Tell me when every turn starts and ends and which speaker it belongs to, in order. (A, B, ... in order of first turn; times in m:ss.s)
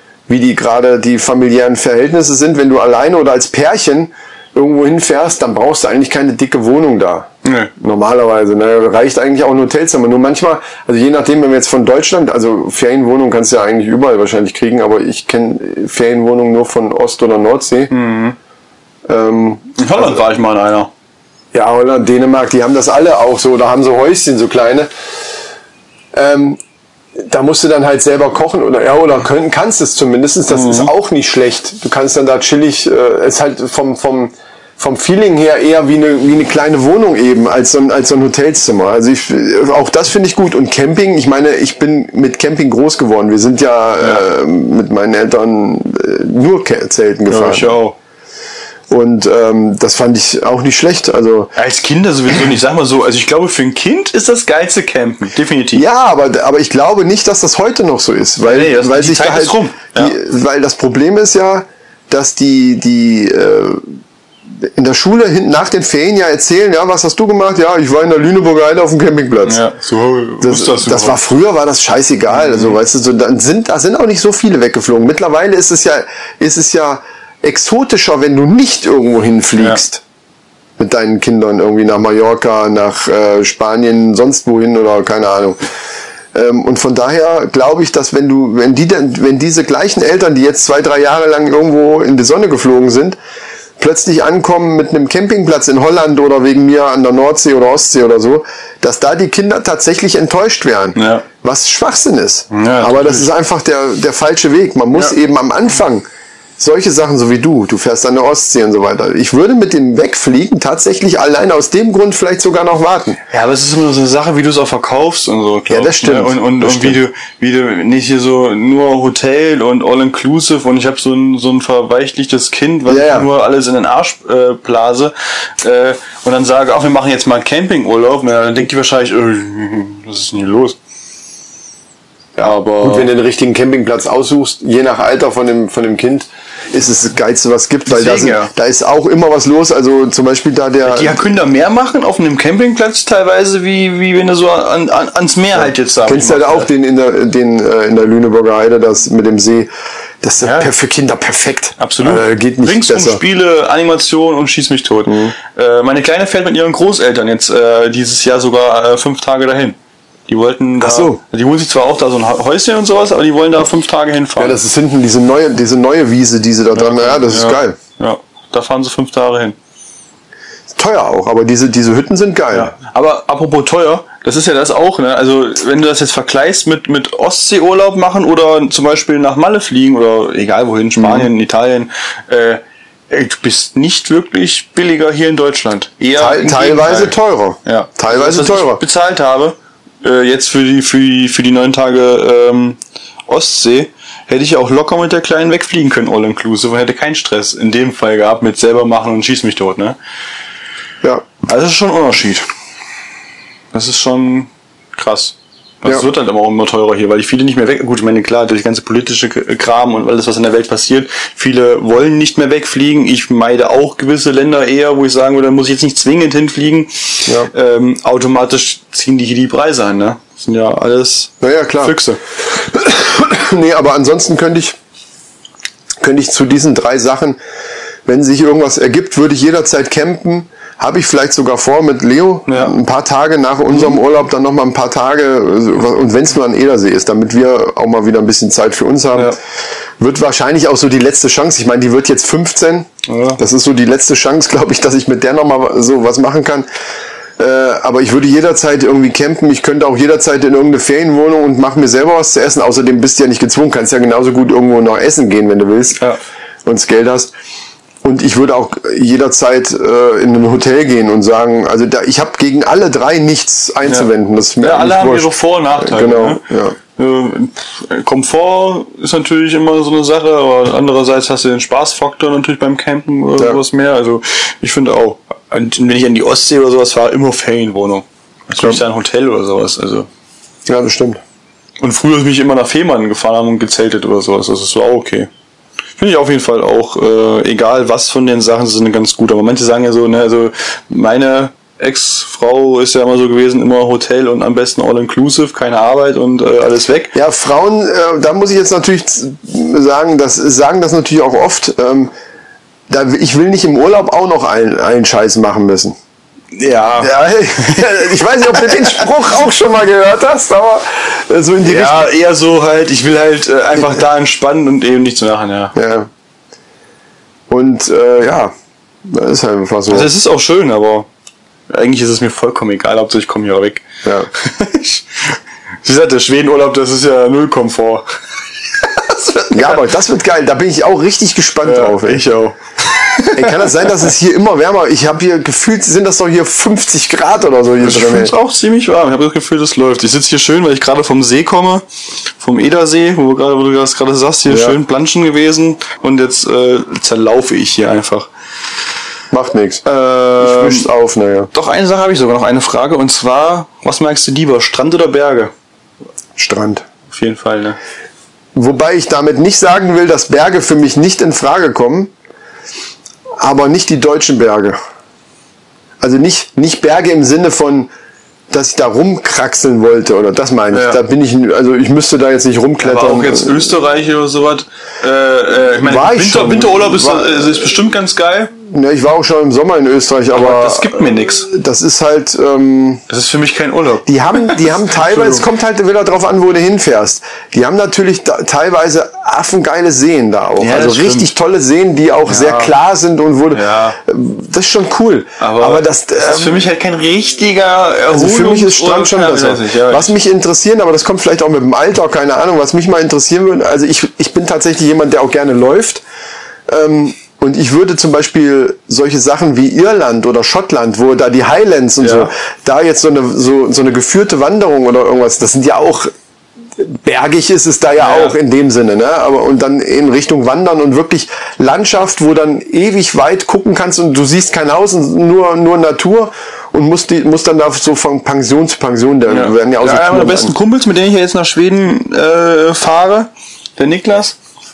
0:00.3-0:17.9 A
0:07.4-0:07.7 B
0:17.9-0:18.4 B
0:19.0-0:20.2 A
0:19.8-0:20.9 B
0:21.5-0:24.9 A
0:26.1-0:26.6 A
0:27.2-0:47.7 A
0:30.5-0:30.9 B
0:47.3-0:48.0 B
0:48.9-0:51.5 A
0:51.6-0:55.8 B
0:55.7-1:04.0 A
0:58.4-1:00.2 B
1:04.6-1:09.6 A
1:09.4-1:11.2 B
1:10.4-1:20.0 A
1:12.3-1:12.8 B
1:20.8-1:25.6 A
1:26.3-1:33.2 A
1:33.8-1:46.0 A
1:40.9-1:41.2 B
1:42.5-1:43.3 B
1:46.6-1:53.2 A
1:53.3-2:10.8 B
1:55.7-1:57.0 A
2:02.9-2:03.3 A
2:12.4-2:21.2 A
2:12.4-2:13.1 B
2:17.8-2:18.5 B
2:20.8-2:26.7 B
2:25.5-2:29.7 A
2:30.2-2:33.2 A
2:30.4-2:30.7 B
2:31.8-2:39.8 B
2:35.1-2:35.3 A
2:40.3-2:44.6 B
2:40.8-2:41.2 A
2:44.4-2:47.8 A
2:46.7-2:49.6 B
2:50.7-2:52.7 A
2:52.5-3:20.0 B
3:01.0-3:01.3 A
3:06.2-3:08.8 A
3:21.4-3:22.4 B
3:23.7-3:42.2 B
3:41.4-3:42.0 A
3:42.5-3:44.8 A
3:46.0-3:47.4 A
3:48.0-3:59.4 A
3:52.5-3:52.8 B
4:00.0-4:06.6 A
4:03.1-4:03.4 B
4:07.4-4:16.0 A
4:16.6-4:17.3 A
4:18.0-4:26.8 A
4:24.6-4:26.4 B
4:27.0-4:40.1 B
4:40.7-4:41.2 A
4:41.8-4:45.3 B
4:46.0-4:57.1 B
4:57.1-5:02.1 A
5:02.9-5:06.0 A
5:06.5-5:09.1 B
5:07.0-5:12.1 A
5:11.6-5:15.7 B
5:15.7-5:16.1 A
5:17.5-5:18.5 A
5:19.0-5:20.1 A
5:19.9-5:21.1 B
5:21.7-5:28.0 B
5:28.7-5:29.9 B
5:29.5-5:32.2 A
5:31.6-5:34.1 B
5:33.3-5:38.3 A
5:37.8-5:41.8 B
5:42.4-5:48.3 B
5:44.5-5:44.8 A
5:49.3-5:51.5 A
5:50.2-5:50.9 B
5:51.5-5:55.5 B
5:56.4-5:56.8 A
5:57.1-5:57.8 B
5:58.5-6:02.1 A
6:03.4-6:04.8 A
6:06.0-6:07.9 A
6:08.5-6:13.7 A
6:10.7-6:11.0 B
6:12.8-6:18.5 B
6:15.8-6:17.7 A
6:18.6-6:23.0 A
6:20.3-6:21.5 B
6:23.1-6:25.4 B
6:24.0-6:36.6 A
6:30.6-6:31.3 B
6:32.2-6:32.7 B
6:33.5-6:34.0 B
6:35.4-6:40.2 B
6:38.1-6:46.0 A
6:46.7-6:56.1 A
6:52.0-6:52.3 B
6:56.8-7:10.5 A
6:58.0-6:58.4 B
7:09.3-7:14.4 B